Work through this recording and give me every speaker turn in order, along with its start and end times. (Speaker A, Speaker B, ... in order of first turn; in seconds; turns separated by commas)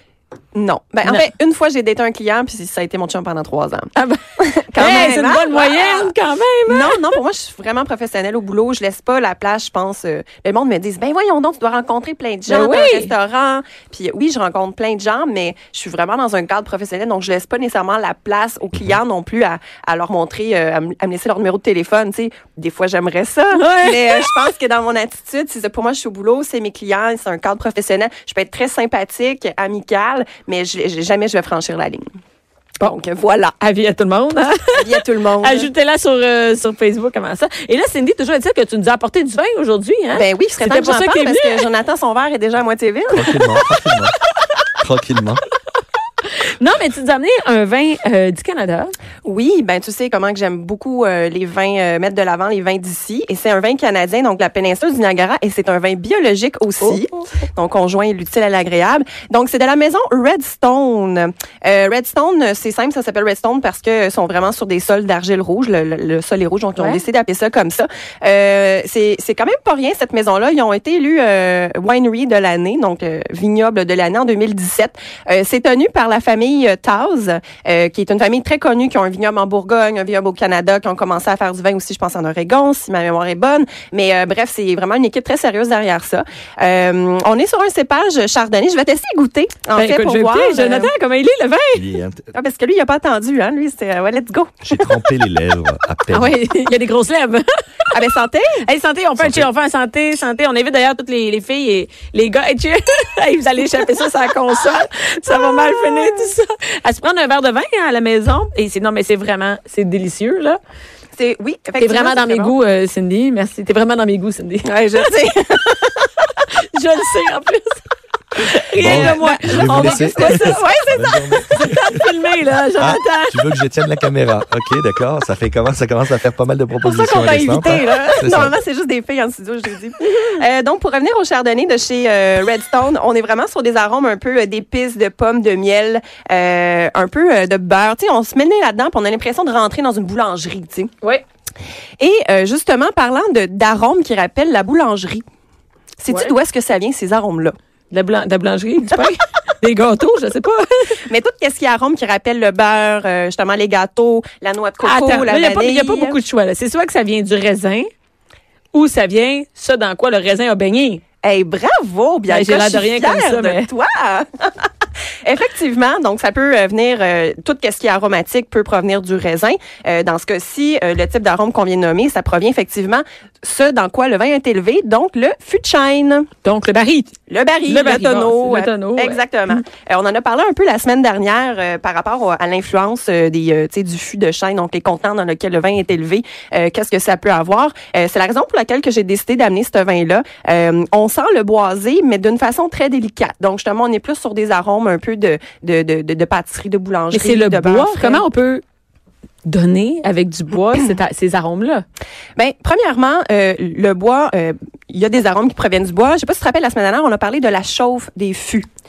Speaker A: 0.5-3.9, Speaker B: 3.9-4.2, Speaker A: 4.4-6.1, Speaker B: 4.8-7.1, Speaker A: 6.7-32.0, Speaker B: 12.5-13.1, Speaker B: 23.5-24.4, Speaker A: 32.8-33.5, Speaker B: 33.5-41.6, Speaker A: 34.8-35.7, Speaker A: 40.1-43.5, Speaker C: 43.1-44.1, Speaker C: 44.8-45.4, Speaker B: 46.6-48.9, Speaker A: 49.2-90.9, Speaker B: 89.7-91.8, Speaker C: 91.7-92.3, Speaker A: 92.3-94.6, Speaker C: 94.6-96.3, Speaker B: 96.1-97.5, Speaker A: 97.9-98.6, Speaker B: 98.7-110.6, Speaker C: 99.2-99.5, Speaker A: 105.3-106.3, Speaker A: 111.2-112.5, Speaker B: 111.8-114.8, Speaker A: 114.6-116.1, Speaker B: 116.7-117.8, Speaker B: 118.3-120.6, Speaker A: 118.7-121.5, Speaker C: 118.8-122.0, Speaker B: 121.5-123.4, Speaker C: 122.8-128.5, Speaker A: 126.8-140.9, Speaker A: 142.0-145.2, Speaker A: 146.0-147.5, Speaker B: 147.9-150.9, Speaker A: 151.1-156.2, Speaker B: 154.8-157.9, Speaker B: 158.7-161.0, Speaker A: 161.2-164.7, Speaker B: 162.3-163.7, Speaker A: 165.2-176.3, Speaker B: 176.4-177.1, Speaker A: 177.3-198.2, Speaker B: 177.7-179.6, Speaker B: 197.1-198.6, Speaker B: 199.4-201.8, Speaker A: 202.3-208.7